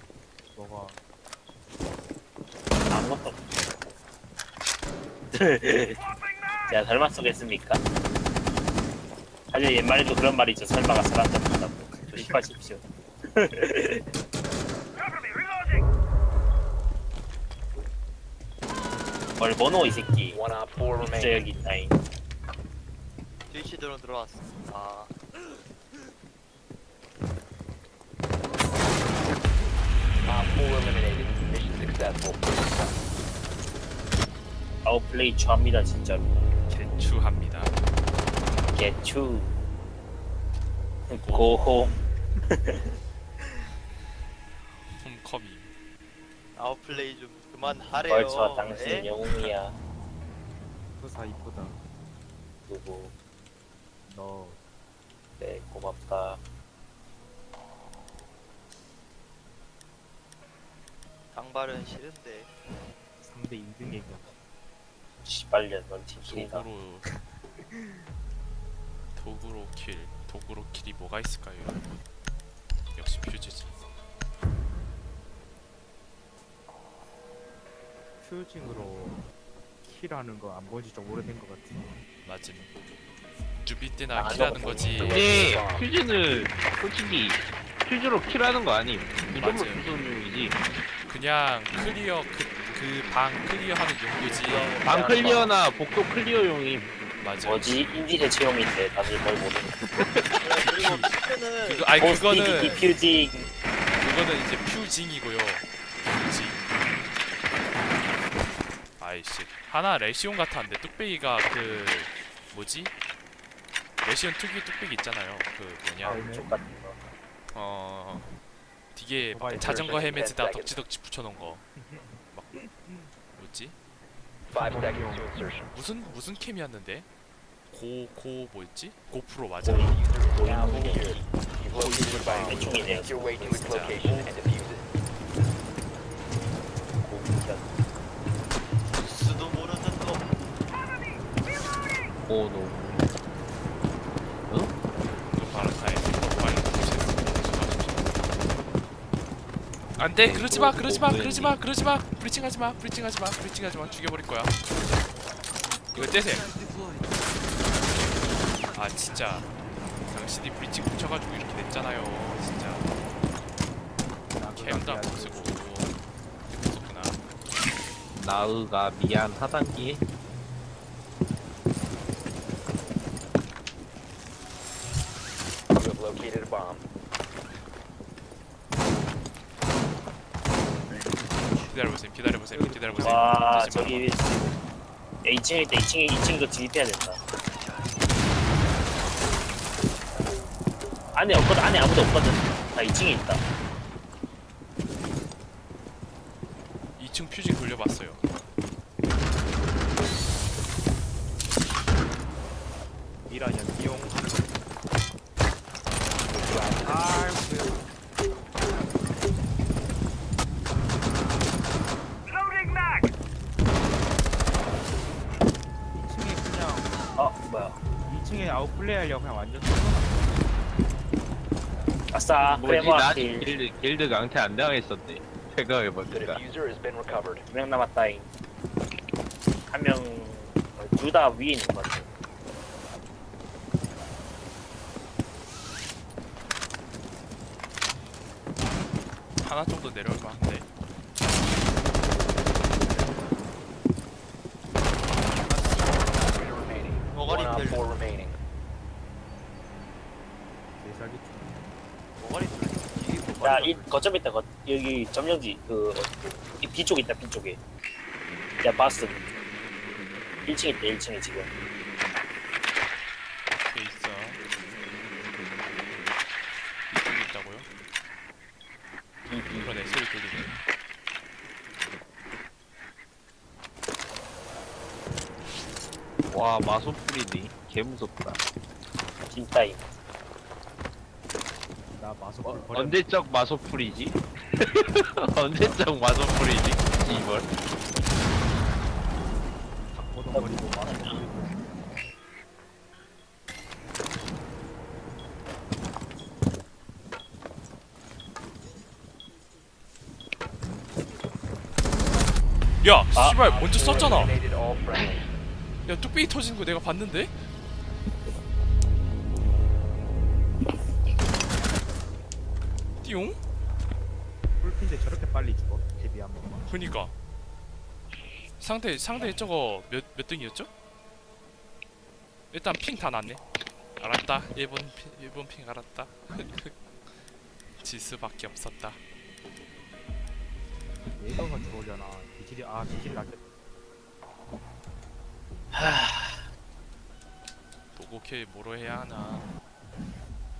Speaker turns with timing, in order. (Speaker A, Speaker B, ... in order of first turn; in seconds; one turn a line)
Speaker A: 0.5-1.0
Speaker B: 2.9-3.4
Speaker B: 5.3-6.0
Speaker B: 6.7-7.8
Speaker B: 9.5-14.1
Speaker B: 19.4-20.4
Speaker C: 20.3-21.5
Speaker B: 21.0-22.0
Speaker D: 23.5-25.1
Speaker C: 30.2-32.9
Speaker B: 34.9-36.4
Speaker E: 36.7-37.7
Speaker B: 38.7-39.5
Speaker B: 41.1-42.9
Speaker E: 41.2-41.6
Speaker E: 44.6-45.7
Speaker D: 46.6-49.1
Speaker B: 48.0-49.8
Speaker A: 51.0-51.8
Speaker B: 52.7-53.1
Speaker A: 54.1-54.6
Speaker B: 55.4-56.4
Speaker D: 61.3-62.5
Speaker A: 63.2-64.3
Speaker B: 65.2-66.7
Speaker E: 66.2-67.0
Speaker A: 67.6-68.1
Speaker E: 69.2-71.9
Speaker E: 72.9-73.7
Speaker A: 78.2-79.3
Speaker A: 79.8-82.0
Speaker E: 82.2-82.7
Speaker E: 83.6-85.3
Speaker B: 84.1-85.0
Speaker C: 84.3-85.9
Speaker F: 85.0-90.6
Speaker E: 89.4-89.9
Speaker E: 91.1-94.9
Speaker D: 94.2-95.5
Speaker C: 94.8-95.4
Speaker F: 94.8-96.9
Speaker E: 97.2-97.8
Speaker B: 97.4-99.8
Speaker F: 100.0-100.3
Speaker D: 100.4-102.0
Speaker E: 100.6-101.1
Speaker E: 101.7-102.9
Speaker B: 102.0-103.5
Speaker E: 103.9-106.7
Speaker E: 109.0-112.9
Speaker E: 114.0-116.2
Speaker B: 116.0-117.0
Speaker A: 116.2-116.5
Speaker E: 117.5-118.3
Speaker E: 118.9-121.7
Speaker A: 119.2-119.7
Speaker C: 119.6-120.8
Speaker A: 121.8-123.1
Speaker E: 123.3-123.8
Speaker C: 124.5-125.7
Speaker A: 124.7-125.2
Speaker E: 125.7-127.1
Speaker E: 127.7-130.0
Speaker B: 129.6-131.2
Speaker C: 129.8-134.9
Speaker E: 130.6-134.3
Speaker B: 132.4-133.1
Speaker B: 137.0-137.8
Speaker D: 138.9-140.2
Speaker F: 142.3-143.1
Speaker E: 145.0-148.2
Speaker E: 150.0-154.6
Speaker F: 150.2-151.6
Speaker E: 155.9-156.5
Speaker E: 158.7-162.9
Speaker A: 164.3-165.6
Speaker E: 164.6-166.0
Speaker E: 166.5-167.2
Speaker F: 168.2-170.1
Speaker C: 175.8-176.8
Speaker E: 181.6-184.1
Speaker A: 182.5-183.3
Speaker B: 183.0-184.5
Speaker B: 185.2-187.2
Speaker B: 191.1-193.4
Speaker E: 197.0-198.2
Speaker A: 203.2-204.4
Speaker C: 206.3-207.2
Speaker A: 206.7-207.8
Speaker A: 215.9-217.0
Speaker B: 217.1-217.8
Speaker A: 218.0-220.5
Speaker B: 222.1-223.5
Speaker F: 222.4-226.4
Speaker C: 226.1-227.4
Speaker B: 227.5-228.3
Speaker B: 229.7-232.1
Speaker E: 239.4-240.7
Speaker D: 245.3-246.3
Speaker C: 246.1-248.4
Speaker D: 247.1-247.9
Speaker A: 250.8-251.6
Speaker D: 252.2-253.9
Speaker B: 253.4-257.6
Speaker B: 258.6-259.2
Speaker B: 260.4-261.5
Speaker E: 263.6-264.4
Speaker E: 266.9-267.7
Speaker B: 269.3-269.8
Speaker E: 269.6-270.6
Speaker F: 276.3-278.4
Speaker B: 279.3-280.0
Speaker A: 281.9-283.0
Speaker F: 282.4-287.5
Speaker A: 289.9-291.8
Speaker B: 290.3-291.2
Speaker E: 302.8-304.4
Speaker C: 303.4-305.2
Speaker B: 304.9-305.2
Speaker E: 305.9-307.4
Speaker E: 313.0-313.4
Speaker A: 314.6-316.6
Speaker E: 316.7-317.1
Speaker E: 318.6-320.7
Speaker E: 322.5-323.4
Speaker E: 324.0-327.2
Speaker E: 327.8-329.0
Speaker A: 331.1-333.5
Speaker B: 335.7-336.4
Speaker E: 337.9-339.5